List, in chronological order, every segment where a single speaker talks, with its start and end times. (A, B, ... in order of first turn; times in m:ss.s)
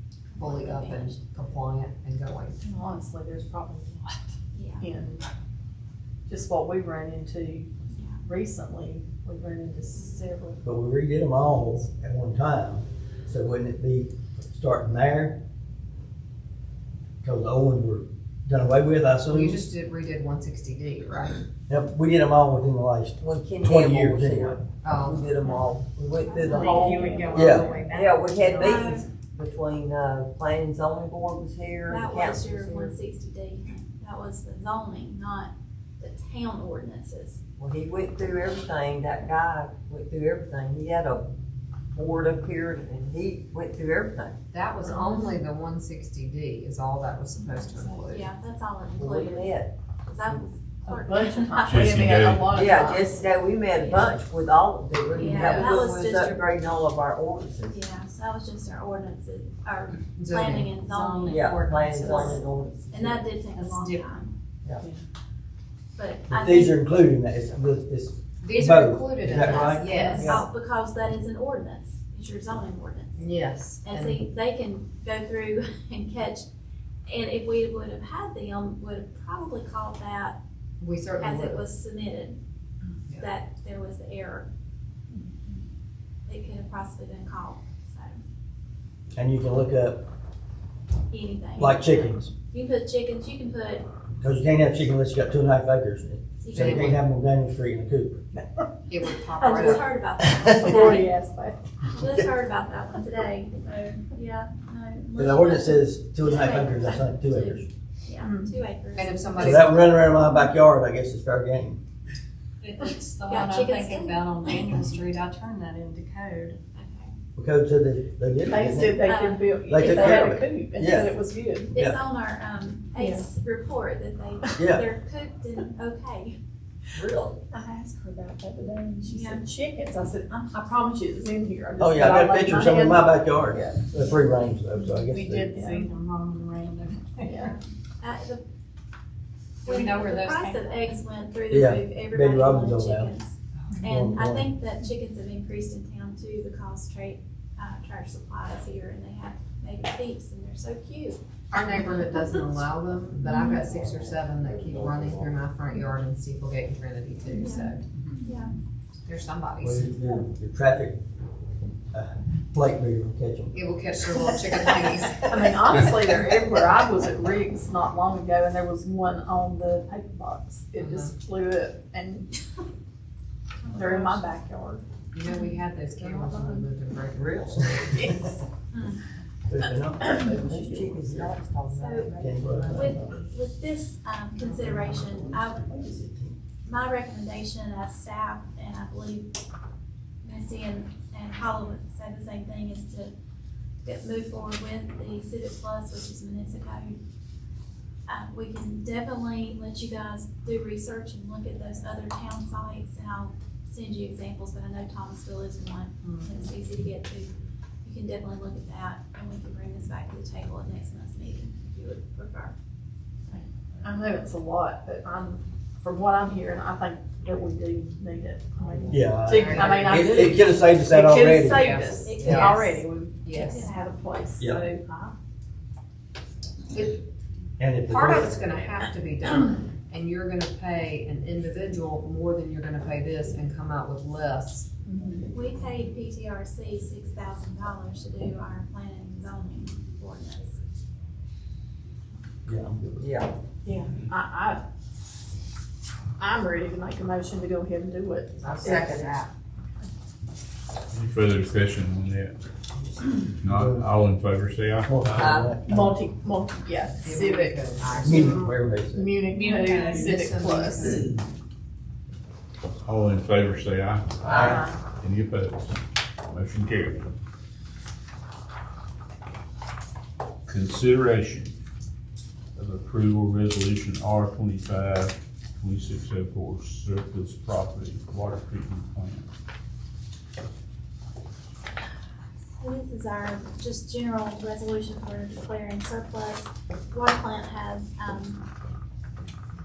0:00.3-0:01.2 A
0:00.4-0:02.6 B
0:02.6-0:05.2 C
0:04.5-0:04.8 A
0:06.3-0:07.7 C
0:07.9-0:08.2 A
0:08.2-0:10.6 C
0:10.6-0:15.4 D
0:17.2-0:19.6 D
0:19.2-0:21.4 B
0:21.7-0:24.6 D
0:23.2-0:33.0 E
0:24.8-0:25.3 B
0:26.2-0:27.5 A
0:26.4-0:28.9 F
0:26.5-0:27.1 B
0:27.3-0:27.7 D
0:28.6-0:29.0 A
0:31.9-0:37.4 A
0:37.6-0:41.3 E
0:41.9-0:44.4 E
0:44.5-0:48.2 B
0:44.8-0:45.2 A
0:48.0-0:52.2 A
0:49.0-0:50.4 E
0:50.8-0:53.2 C
0:51.6-0:52.6 G
0:52.5-0:57.8 E
0:53.7-0:54.1 A
0:55.1-0:56.5 A
0:55.1-0:55.9 B
0:57.7-1:04.3 A
1:00.1-1:02.4 B
1:00.9-1:01.8 F
1:01.3-1:03.3 E
1:03.5-1:04.1 F
1:06.0-1:06.9 A
1:06.3-1:10.5 D
1:08.4-1:10.4 B
1:09.4-1:13.2 A
1:13.2-1:14.2 B
1:13.8-1:16.4 A
1:17.0-1:20.4 A
1:20.8-1:21.6 B
1:21.2-1:22.4 A
1:23.2-1:24.5 A
1:26.3-1:28.2 A
1:29.1-1:30.0 D
1:31.1-1:33.8 A
1:31.6-1:32.3 D
1:34.2-1:38.4 D
1:36.4-1:36.9 A
1:36.5-1:37.0 B
1:38.9-1:39.9 B
1:39.4-1:41.1 A
1:40.4-1:41.6 C
1:41.9-1:50.2 A
1:45.2-1:47.6 D
1:48.2-1:48.6 C
1:48.9-1:49.8 B
1:49.4-1:51.8 D
1:52.6-1:56.6 F
1:53.2-1:54.8 A
1:56.7-1:57.1 A
1:57.4-1:59.0 D
1:58.5-2:01.7 C
1:59.0-2:00.2 A
1:59.7-2:01.1 D
2:01.7-2:02.0 D
2:01.7-2:06.3 A
2:04.6-2:04.9 D
2:06.9-2:07.4 E
2:07.6-2:13.9 C
2:09.1-2:09.4 A
2:11.8-2:15.6 D
2:15.1-2:15.9 C
2:15.5-2:17.5 F
2:17.2-2:17.6 C
2:17.4-2:18.4 A
2:19.6-2:31.2 A
2:19.6-2:20.6 F
2:21.5-2:23.1 D
2:23.8-2:24.5 D
2:31.5-2:37.9 B
2:33.2-2:33.6 A
2:37.3-2:38.5 A
2:39.0-2:39.9 B
2:39.6-2:41.0 D
2:41.9-2:43.6 D
2:43.5-2:45.5 B
2:45.2-2:52.3 C
2:50.8-2:51.1 B
2:53.6-2:53.9 A
2:53.7-2:54.8 C
2:54.0-2:54.2 F
2:55.1-2:58.4 B
2:55.2-2:55.5 A
2:57.1-2:57.7 E
2:58.7-2:59.0 A
2:59.5-3:01.3 D
3:00.0-3:00.6 C
3:00.2-3:02.8 E
3:01.7-3:02.1 A
3:02.2-3:03.0 D
3:02.6-3:05.7 A
3:05.4-3:06.4 D
3:06.6-3:09.3 A
3:10.2-3:13.1 A
3:13.8-3:17.0 A
3:18.1-3:27.3 A
3:27.8-3:32.5 A
3:33.3-3:44.9 C
3:38.9-3:41.8 D
3:39.1-3:40.5 B
3:41.5-3:43.7 B
3:42.0-3:42.8 A
3:43.4-3:44.0 A
3:44.4-3:44.6 D
3:44.4-3:45.1 F
3:46.7-3:47.0 B
3:47.6-3:48.4 D
3:47.9-3:54.7 B
3:54.9-3:55.3 F
3:55.3-4:00.6 A
4:02.4-4:03.1 D
4:03.0-4:03.3 E
4:03.6-4:04.6 C
4:06.2-4:09.0 C
4:08.4-4:09.3 B
4:08.6-4:09.2 E
4:10.9-4:12.3 G
4:13.3-4:15.4 G
4:13.4-4:13.9 D
4:14.8-4:16.0 D
4:15.2-4:15.6 E
4:15.6-4:21.0 C
4:17.0-4:18.5 B
4:18.0-4:19.2 D
4:19.3-4:20.2 F
4:19.4-4:21.2 B
4:22.8-4:27.1 G
4:24.3-4:24.6 D
4:24.4-4:24.8 C
4:30.5-4:31.5 G
4:32.6-4:39.3 G
4:42.6-4:48.4 A